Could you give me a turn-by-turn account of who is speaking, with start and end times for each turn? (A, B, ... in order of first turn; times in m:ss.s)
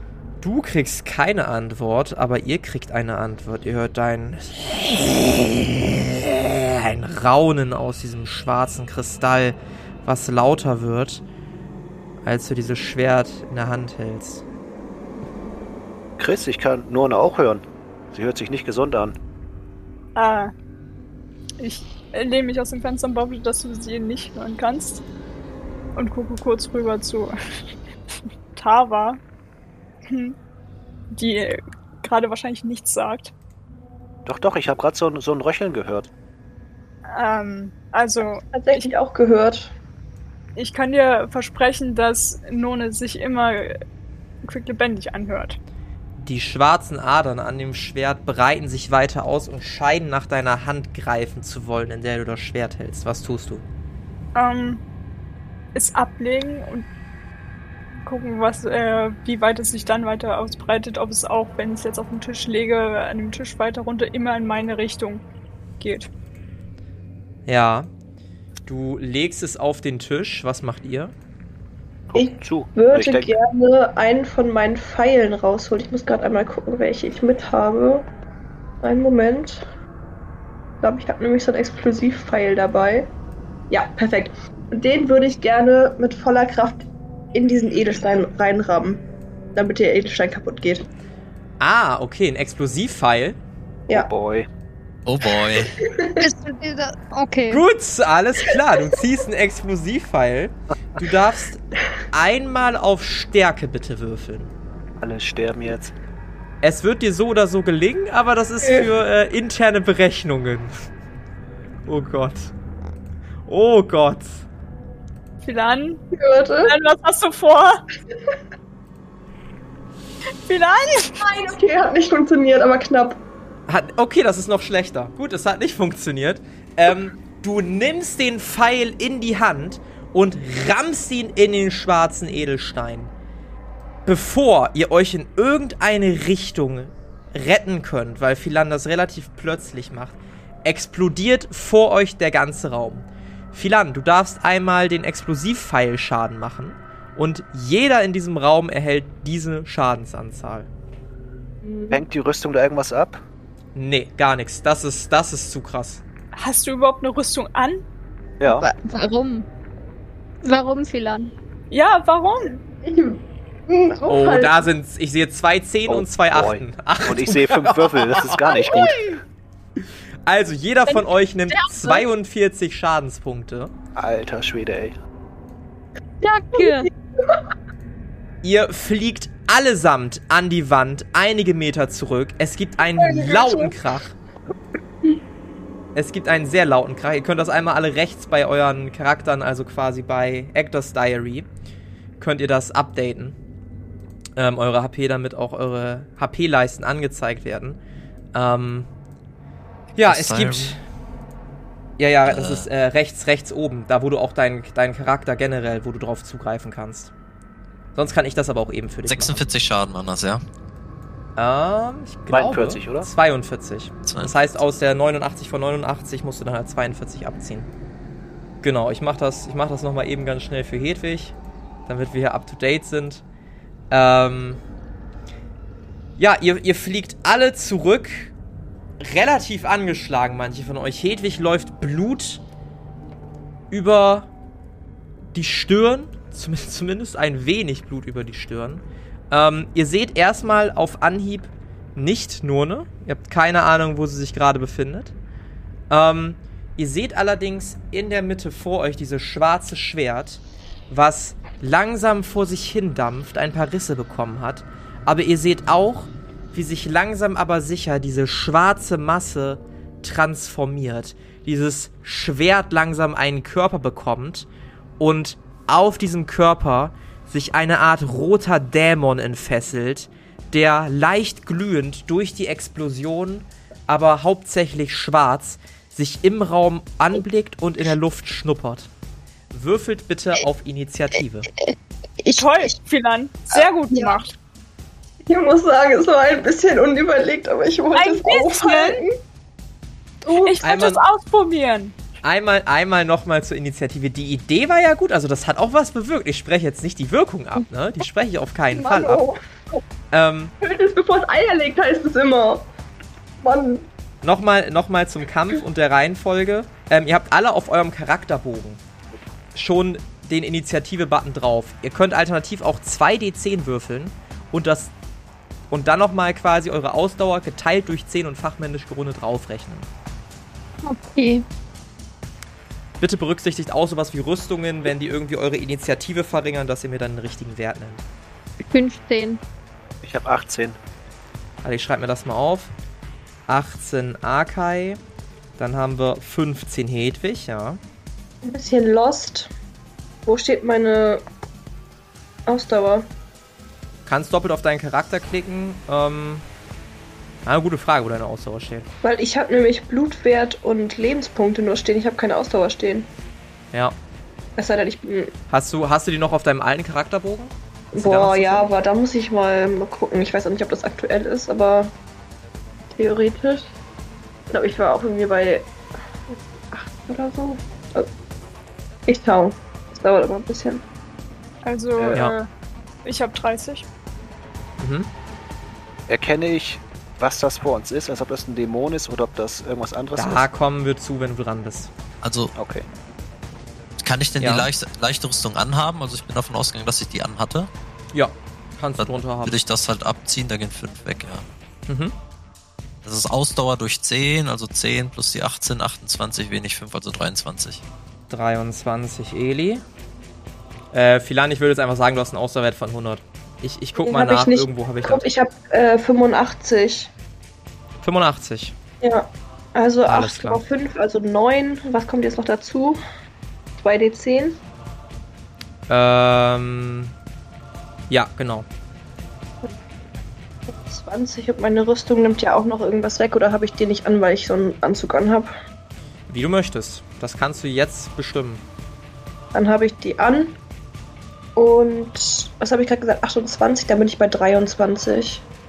0:00.4-0:11.2 A
0:12.2-0:14.4 A
0:16.2-0:19.2 B
0:20.2-0:20.5 C
0:21.6-0:25.0 C
0:25.9-0:27.6 C
0:28.5-0:29.2 C
0:30.0-0:30.4 C
0:31.1-0:33.3 C
0:34.2-0:36.1 B
0:37.1-0:38.9 C
0:38.5-0:39.7 D
0:40.6-0:43.8 C
0:44.4-0:45.6 C
0:46.2-0:53.6 A
0:54.3-0:54.8 C
0:55.7-0:56.8 C
0:58.0-1:05.2 C
1:05.8-1:06.1 C
1:07.5-1:07.9 A
1:08.6-1:11.1 A
1:12.1-1:13.3 B
1:12.1-1:18.1 D
1:18.8-1:19.7 D
1:20.8-1:23.1 D
1:23.7-1:30.9 D
1:31.6-1:33.4 A
1:33.9-1:34.5 B
1:35.0-1:35.8 E
1:35.6-1:36.3 D
1:36.2-1:37.6 F
1:37.5-1:44.5 A
1:45.0-1:45.9 B
1:46.6-1:50.7 A
1:48.6-1:48.9 D
1:51.8-1:52.5 A
1:53.5-1:54.5 A
1:55.4-1:56.0 C
1:56.1-1:56.7 D
1:56.6-1:57.8 C
2:00.5-2:01.3 C
2:01.1-2:03.2 D
2:03.7-2:13.1 A
2:14.0-2:30.7 A
2:31.6-2:32.0 D
2:31.9-2:33.2 B
2:33.7-2:36.0 A
2:36.3-2:37.8 C
2:38.4-2:38.7 B
2:38.4-2:39.5 F
2:40.4-2:41.3 F
2:41.7-2:42.6 C
2:42.8-2:44.7 D
2:44.1-2:48.9 A
2:45.9-2:49.2 B
2:48.5-2:49.0 F
2:50.2-2:53.7 A
2:51.5-2:52.1 F
2:54.0-2:55.0 B
2:56.2-2:56.9 F
2:58.4-3:04.1 A
3:03.0-3:03.8 D
3:05.9-3:11.5 A
3:12.2-3:13.4 A
3:14.4-3:17.8 A
3:18.3-3:18.9 A
3:19.9-3:20.8 A
3:20.0-3:20.8 E
3:22.0-3:27.1 A
3:22.3-3:22.7 E
3:27.9-3:29.4 A
3:29.0-3:30.4 E
3:31.4-3:37.7 A
3:32.3-3:33.1 B
3:34.0-3:34.4 E
3:38.6-3:43.2 A
3:43.9-3:44.6 A
3:46.2-3:48.3 A
3:49.0-3:52.4 A
3:53.7-3:54.3 A
3:55.3-4:05.1 A
4:05.9-4:24.5 A
4:25.0-4:38.9 A
4:39.5-4:41.5 A
4:42.3-4:44.3 C
4:43.5-4:44.0 D
4:45.3-4:49.1 D
4:47.9-4:49.0 C
4:50.3-4:50.6 D
4:50.3-4:51.9 C
4:50.6-4:51.0 A
4:52.2-4:59.2 A
4:58.7-4:59.8 D
5:00.1-5:00.5 A
5:00.6-5:02.6 D
5:03.4-5:03.9 D
5:04.2-5:08.8 A
5:09.5-5:14.9 A
5:15.7-5:19.9 A
5:20.8-5:21.4 F
5:23.0-5:28.0 A
5:28.6-5:29.4 F
5:30.0-5:30.8 B
5:31.6-5:32.7 A
5:33.5-5:35.0 A
5:35.6-5:37.8 A
5:38.4-5:39.5 D
5:40.2-5:41.2 D
5:42.4-5:43.1 D
5:44.0-5:46.4 A
5:47.4-5:48.9 A
5:49.0-5:53.1 D
5:54.6-5:55.3 D
5:55.5-5:58.7 A
5:57.9-6:01.9 D
6:02.9-6:03.7 D
6:04.5-6:05.7 D
6:06.3-6:08.1 D
6:09.1-6:10.8 D
6:11.6-6:12.5 C
6:12.0-6:12.2 B
6:13.0-6:13.8 C
6:14.8-6:15.1 A
6:16.1-6:20.4 B
6:20.2-6:21.9 A
6:22.2-6:22.5 E
6:22.6-6:22.8 B
6:24.0-6:27.7 E
6:24.4-6:24.7 A
6:28.1-6:29.6 A
6:29.0-6:31.5 E
6:31.9-6:32.1 A
6:33.0-6:37.8 E
6:38.3-6:39.8 A
6:40.9-6:45.2 A
6:44.0-6:47.1 D
6:48.0-6:48.7 A
6:49.0-6:53.0 D
6:50.1-6:50.6 A
6:53.8-6:54.6 D
6:55.9-6:57.1 A
6:58.1-6:58.7 A
7:00.7-7:05.5 D
7:06.3-7:08.6 A
7:09.5-7:10.6 D
7:11.6-7:15.4 D